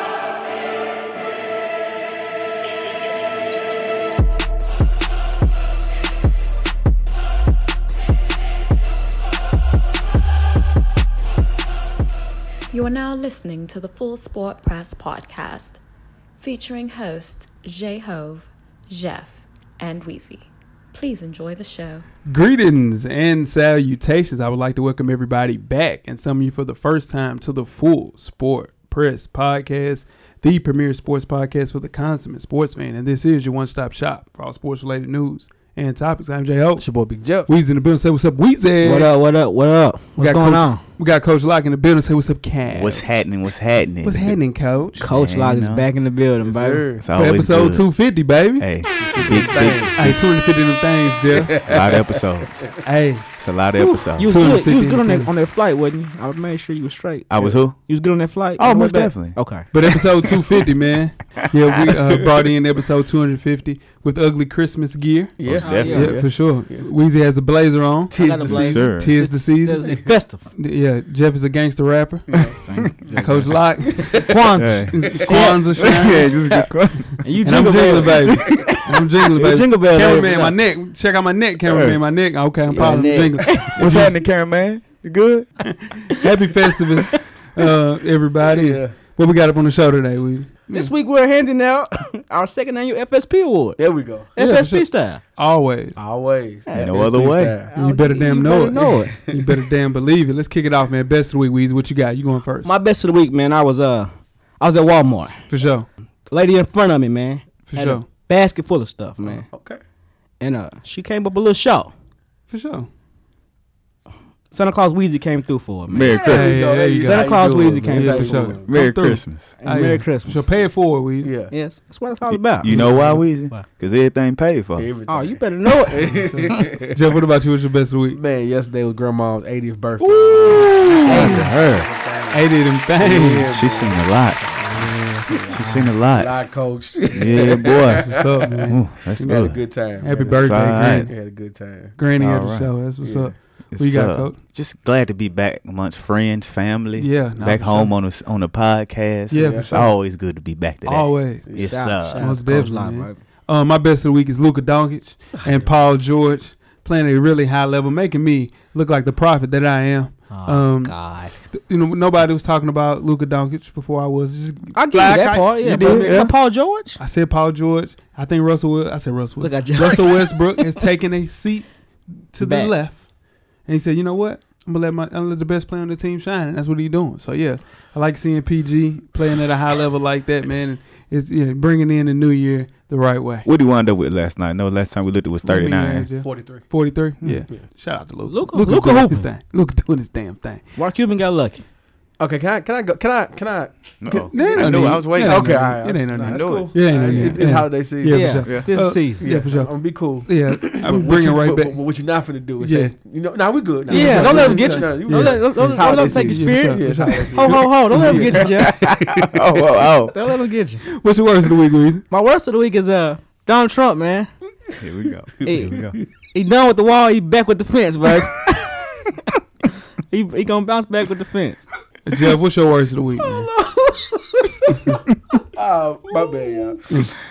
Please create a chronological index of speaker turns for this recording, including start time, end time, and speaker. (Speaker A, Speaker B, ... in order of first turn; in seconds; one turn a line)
Speaker A: 12.7-15.8
Speaker A: 16.4-22.0
Speaker B: 22.2-36.9
Speaker C: 36.8-37.5
Speaker B: 37.5-39.1
Speaker D: 38.8-40.8
Speaker B: 40.2-43.1
Speaker E: 42.7-44.4
Speaker B: 44.0-45.0
Speaker E: 45.0-45.9
Speaker D: 45.0-46.9
Speaker C: 46.4-47.0
Speaker E: 47.0-47.9
Speaker B: 47.1-48.7
Speaker E: 48.6-50.2
Speaker C: 49.0-50.0
Speaker B: 50.0-51.6
Speaker C: 51.3-52.2
Speaker E: 51.6-52.6
Speaker B: 52.8-53.3
Speaker E: 53.4-54.4
Speaker D: 54.1-59.7
Speaker B: 54.3-55.3
Speaker E: 57.3-57.8
Speaker E: 58.6-59.4
Speaker B: 59.7-68.2
Speaker C: 65.4-66.9
Speaker E: 65.4-66.2
Speaker D: 65.6-66.2
Speaker C: 68.1-68.9
Speaker D: 68.2-70.5
Speaker E: 68.4-69.1
Speaker B: 68.9-74.2
Speaker C: 72.3-73.0
Speaker E: 72.6-73.5
Speaker D: 73.1-73.5
Speaker C: 73.8-74.6
Speaker D: 74.2-75.7
Speaker E: 74.5-77.2
Speaker B: 74.9-76.3
Speaker D: 77.2-80.5
Speaker B: 77.4-84.1
Speaker E: 81.7-82.0
Speaker D: 82.7-83.8
Speaker E: 83.8-85.5
Speaker B: 85.7-90.9
Speaker C: 88.4-89.0
Speaker D: 90.7-93.8
Speaker C: 93.8-94.3
Speaker D: 94.3-95.2
Speaker B: 94.4-96.0
Speaker C: 96.0-97.7
Speaker D: 96.7-97.0
Speaker E: 96.7-97.6
Speaker D: 97.7-99.2
Speaker B: 97.8-102.7
Speaker D: 102.6-105.4
Speaker B: 105.5-105.9
Speaker D: 106.3-109.5
Speaker B: 107.7-108.0
Speaker C: 109.5-109.8
Speaker D: 110.4-111.9
Speaker B: 112.5-112.9
Speaker D: 114.5-116.3
Speaker E: 115.9-116.8
Speaker C: 116.1-118.7
Speaker B: 116.3-117.3
Speaker D: 116.9-118.5
Speaker B: 117.8-121.3
Speaker E: 118.7-119.5
Speaker D: 119.6-120.5
Speaker C: 121.2-121.5
Speaker D: 121.5-122.7
Speaker E: 122.3-124.9
Speaker B: 122.7-123.3
Speaker C: 124.8-127.0
Speaker D: 125.1-126.2
Speaker B: 126.1-128.2
Speaker C: 128.1-141.9
Speaker B: 130.0-131.5
Speaker E: 130.7-131.7
Speaker D: 131.0-131.9
Speaker B: 132.3-133.5
Speaker E: 133.5-134.5
Speaker D: 134.7-135.9
Speaker E: 135.5-136.3
Speaker E: 137.1-139.6
Speaker B: 137.9-141.2
Speaker E: 140.3-141.1
Speaker B: 141.9-144.4
Speaker E: 142.1-142.7
Speaker C: 143.0-143.3
Speaker E: 143.7-152.3
Speaker B: 146.9-147.9
Speaker B: 149.3-149.9
Speaker C: 149.3-149.8
Speaker B: 150.8-151.5
Speaker C: 151.5-151.8
Speaker D: 151.7-153.2
Speaker B: 152.0-161.0
Speaker C: 155.4-155.7
Speaker D: 160.3-161.3
Speaker B: 161.5-166.3
Speaker D: 164.7-167.0
Speaker B: 167.0-171.7
Speaker D: 169.4-170.7
Speaker B: 172.3-173.0
Speaker D: 172.4-172.7
Speaker B: 173.7-183.5
Speaker E: 183.4-186.1
Speaker B: 185.4-190.6
Speaker C: 186.2-186.6
Speaker D: 188.2-189.3
Speaker D: 190.8-191.6
Speaker C: 192.2-198.4
Speaker E: 194.0-197.4
Speaker B: 194.3-201.8
Speaker D: 198.1-199.2
Speaker C: 199.2-209.6
Speaker B: 202.6-202.9
Speaker D: 203.9-208.8
Speaker B: 203.9-208.5
Speaker E: 208.7-210.1
Speaker D: 210.1-210.8
Speaker B: 210.8-212.0
Speaker D: 212.1-214.3
Speaker E: 214.8-216.0
Speaker C: 215.4-215.9
Speaker D: 215.4-219.1
Speaker D: 220.1-221.7
Speaker B: 222.1-223.5
Speaker C: 223.3-227.1